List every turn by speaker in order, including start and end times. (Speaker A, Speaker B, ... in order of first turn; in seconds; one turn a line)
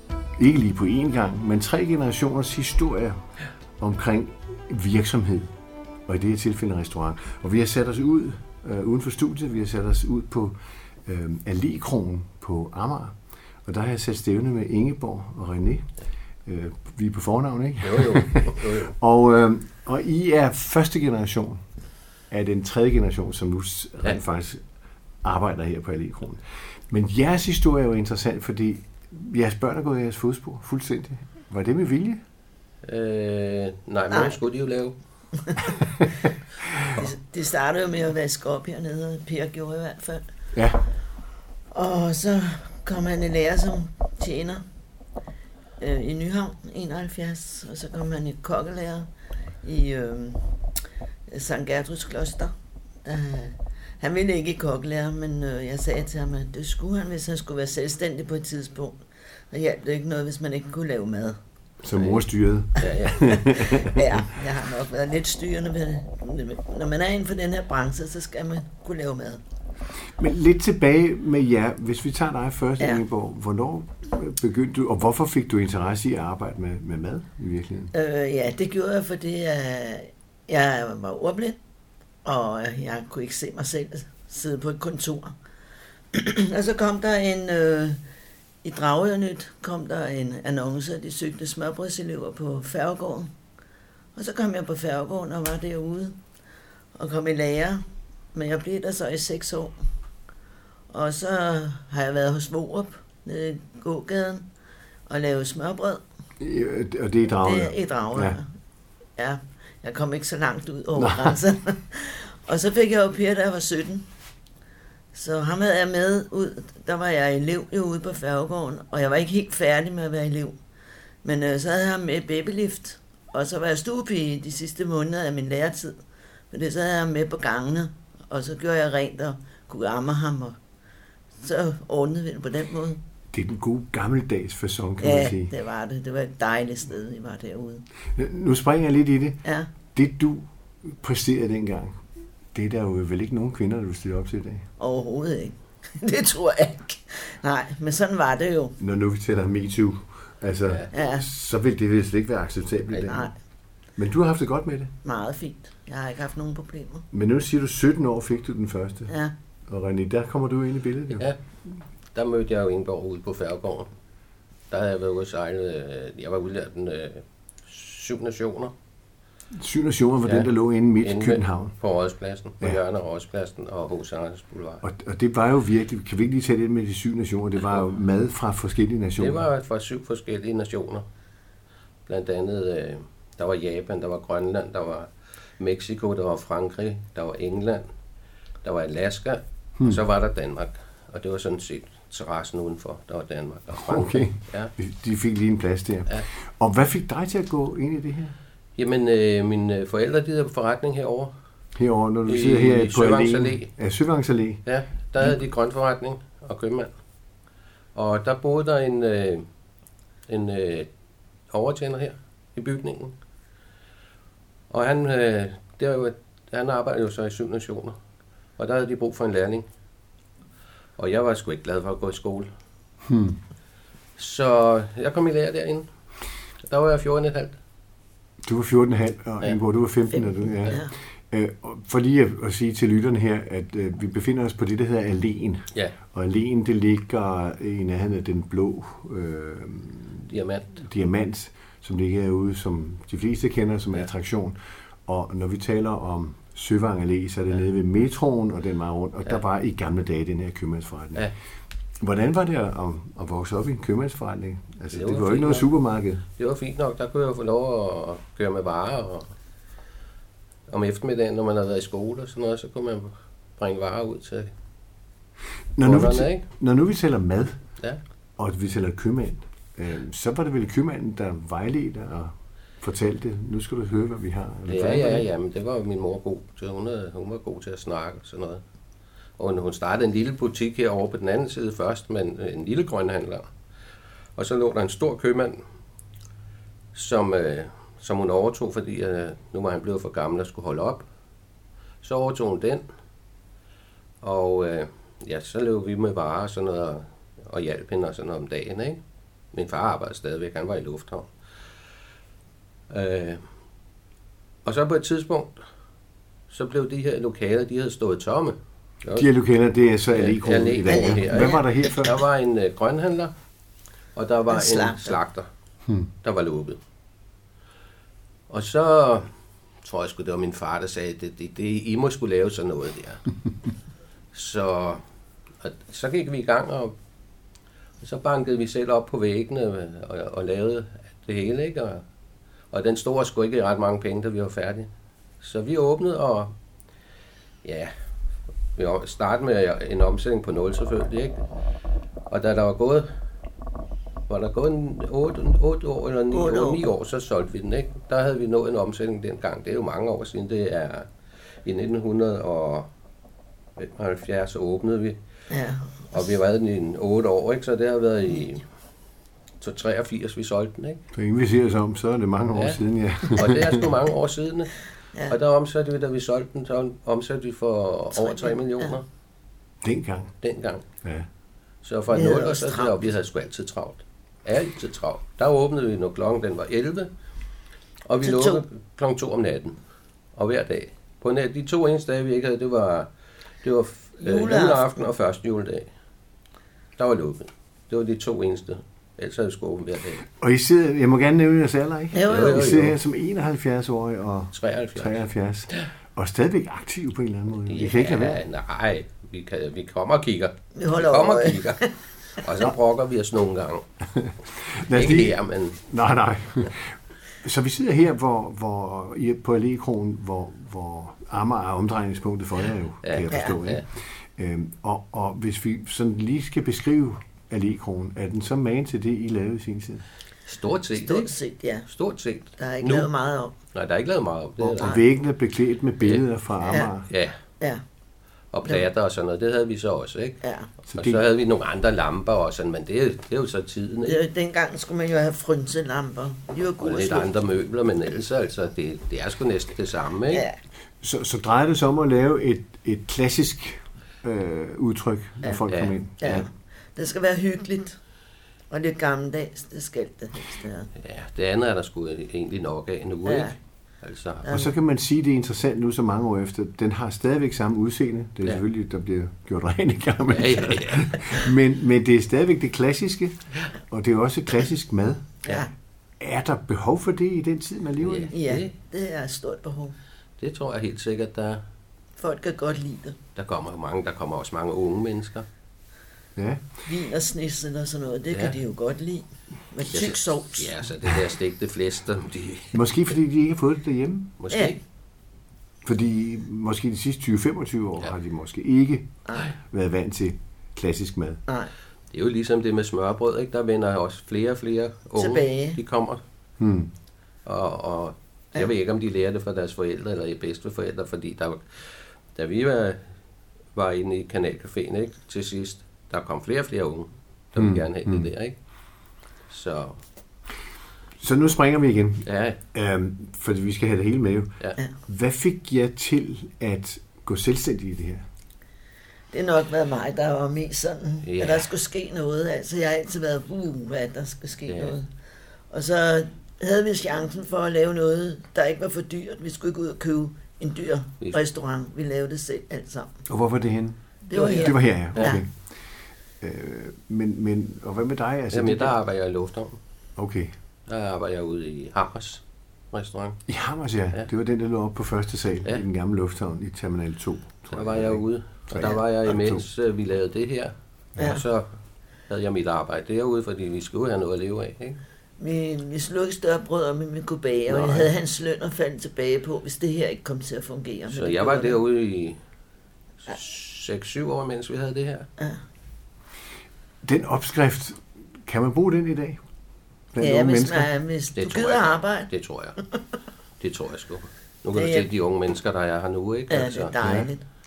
Speaker A: 0.4-3.2
Speaker A: 3.8-5.5
Speaker A: 6.0-15.8
Speaker A: 16.4-21.6
Speaker B: 17.8-18.9
Speaker A: 22.3-24.6
Speaker A: 25.2-32.2
Speaker B: 32.8-34.9
Speaker C: 36.9-40.2
Speaker A: 40.5-40.8
Speaker C: 41.7-44.6
Speaker C: 45.8-49.1
Speaker C: 49.6-50.5
Speaker C: 51.3-61.4
Speaker A: 61.8-64.2
Speaker B: 62.8-63.3
Speaker C: 63.0-69.4
Speaker A: 70.2-77.9
Speaker C: 77.9-81.6
Speaker C: 82.2-85.3
Speaker C: 86.1-88.0
Speaker C: 88.6-93.3
Speaker C: 94.2-96.2
Speaker C: 96.9-99.8
Speaker C: 100.9-104.5
Speaker C: 105.1-106.0
Speaker A: 106.4-108.4
Speaker C: 107.4-108.5
Speaker C: 109.2-114.1
Speaker A: 111.0-111.4
Speaker C: 115.1-120.6
Speaker C: 121.2-126.0
Speaker C: 126.5-130.6
Speaker C: 131.4-133.0
Speaker A: 133.3-135.5
Speaker C: 135.0-137.8
Speaker A: 138.1-139.4
Speaker C: 139.4-139.7
Speaker A: 139.9-142.0
Speaker A: 142.5-144.6
Speaker C: 144.8-148.8
Speaker A: 148.8-153.3
Speaker C: 150.9-151.2
Speaker C: 152.9-153.3
Speaker A: 154.0-154.9
Speaker C: 155.0-157.0
Speaker A: 157.1-159.1
Speaker A: 159.7-161.2
Speaker B: 162.1-163.9
Speaker B: 164.7-168.7
Speaker A: 169.5-171.7
Speaker B: 171.0-174.8
Speaker A: 174.8-179.4
Speaker B: 179.2-181.0
Speaker B: 182.1-187.8
Speaker B: 188.6-194.7
Speaker A: 193.8-198.3
Speaker B: 198.8-201.3
Speaker A: 201.8-204.6
Speaker B: 202.3-203.7
Speaker B: 204.7-206.9
Speaker B: 207.9-209.4
Speaker B: 210.3-210.9
Speaker B: 211.5-213.1
Speaker B: 214.7-217.9
Speaker B: 218.6-219.6
Speaker B: 221.0-222.5
Speaker A: 223.0-223.4
Speaker B: 224.2-225.9
Speaker B: 226.7-227.5
Speaker A: 228.4-251.2
Speaker C: 230.4-230.9
Speaker B: 240.3-240.8
Speaker A: 252.0-256.2
Speaker B: 254.9-255.7
Speaker B: 256.4-259.3
Speaker B: 260.7-264.5
Speaker A: 265.8-267.6
Speaker B: 265.8-266.4
Speaker A: 268.4-275.3
Speaker B: 274.7-278.6
Speaker B: 279.4-283.5
Speaker B: 284.4-285.6
Speaker B: 286.9-291.0
Speaker B: 292.0-292.8
Speaker B: 294.2-299.0
Speaker B: 299.5-301.3
Speaker B: 302.9-303.4
Speaker B: 304.6-305.6
Speaker B: 306.5-309.3
Speaker A: 309.1-312.2
Speaker B: 310.1-313.3
Speaker C: 310.9-312.0
Speaker B: 314.1-315.5
Speaker C: 314.5-315.1
Speaker B: 316.2-316.8
Speaker B: 318.5-319.3
Speaker B: 319.8-323.2
Speaker B: 324.3-325.0
Speaker B: 325.6-326.9
Speaker B: 328.0-332.0
Speaker B: 332.7-334.9
Speaker B: 335.4-336.5
Speaker B: 337.6-337.9
Speaker B: 338.8-341.4
Speaker B: 342.3-343.1
Speaker B: 344.3-351.1
Speaker C: 346.3-346.8
Speaker B: 351.6-352.9
Speaker B: 353.8-355.2
Speaker C: 355.5-356.1
Speaker B: 356.1-358.6
Speaker B: 359.6-361.0
Speaker A: 361.1-363.9
Speaker B: 362.5-364.7
Speaker B: 365.3-369.0
Speaker C: 368.1-368.9
Speaker A: 369.8-370.3
Speaker B: 370.4-370.8
Speaker A: 371.0-371.3
Speaker B: 371.8-377.1
Speaker C: 372.1-373.1
Speaker B: 378.0-379.8
Speaker C: 378.2-378.6
Speaker B: 380.3-383.1
Speaker B: 383.6-385.9
Speaker C: 384.2-385.0
Speaker B: 387.0-390.2
Speaker A: 390.3-398.4
Speaker C: 392.1-392.7
Speaker B: 392.2-393.0
Speaker B: 394.5-395.2
Speaker B: 397.7-403.8
Speaker C: 400.8-401.9
Speaker A: 404.1-420.0
Speaker B: 404.9-405.8
Speaker B: 413.0-413.8
Speaker C: 413.3-413.6
Speaker B: 420.4-421.3
Speaker C: 420.9-421.9
Speaker B: 421.9-423.1
Speaker C: 422.6-423.5
Speaker B: 423.7-425.0
Speaker A: 424.6-427.1
Speaker C: 426.6-426.9
Speaker B: 427.1-427.4
Speaker B: 428.5-430.4
Speaker C: 430.4-430.7
Speaker A: 430.9-431.2
Speaker B: 430.9-434.2
Speaker C: 434.0-437.3
Speaker B: 436.8-440.4
Speaker C: 440.3-440.6
Speaker A: 441.0-446.4
Speaker B: 445.7-446.4
Speaker C: 446.2-448.0
Speaker C: 448.7-450.9
Speaker B: 451.0-454.5
Speaker C: 453.2-453.5
Speaker C: 454.4-454.7
Speaker A: 454.5-463.4
Speaker B: 460.3-461.4
Speaker A: 463.9-465.4
Speaker C: 465.4-465.7
Speaker A: 466.2-468.3
Speaker B: 468.0-468.7
Speaker C: 468.3-469.9
Speaker B: 470.4-471.6
Speaker C: 472.2-473.2
Speaker B: 473.4-475.5
Speaker A: 476.4-476.7
Speaker C: 476.9-480.7
Speaker B: 479.9-482.8
Speaker A: 482.7-484.3
Speaker B: 484.4-484.8
Speaker A: 485.8-491.4
Speaker B: 492.1-496.2
Speaker C: 495.2-495.8
Speaker A: 496.6-496.9
Speaker B: 497.4-501.8
Speaker B: 502.3-503.0
Speaker B: 503.7-508.5
Speaker A: 507.6-508.3
Speaker B: 509.5-510.0
Speaker A: 511.2-514.5
Speaker B: 512.2-512.6
Speaker A: 515.0-518.2
Speaker C: 519.3-525.1
Speaker B: 521.2-521.7
Speaker B: 524.7-525.0
Speaker C: 525.7-533.1
Speaker A: 533.3-535.5
Speaker C: 534.3-535.4
Speaker B: 534.3-535.4
Speaker A: 536.4-539.0
Speaker B: 538.5-539.8
Speaker A: 540.2-540.5
Speaker B: 540.9-543.4
Speaker A: 543.5-549.6
Speaker B: 547.7-551.7
Speaker C: 551.2-551.4
Speaker B: 552.3-555.0
Speaker C: 555.4-561.8
Speaker B: 557.7-558.1
Speaker B: 561.1-562.4
Speaker B: 563.2-565.3
Speaker A: 567.0-569.4
Speaker A: 570.1-570.9
Speaker C: 570.2-572.3
Speaker B: 571.4-572.8
Speaker B: 573.6-577.0
Speaker C: 574.7-575.1
Speaker C: 576.5-577.4
Speaker A: 577.0-577.3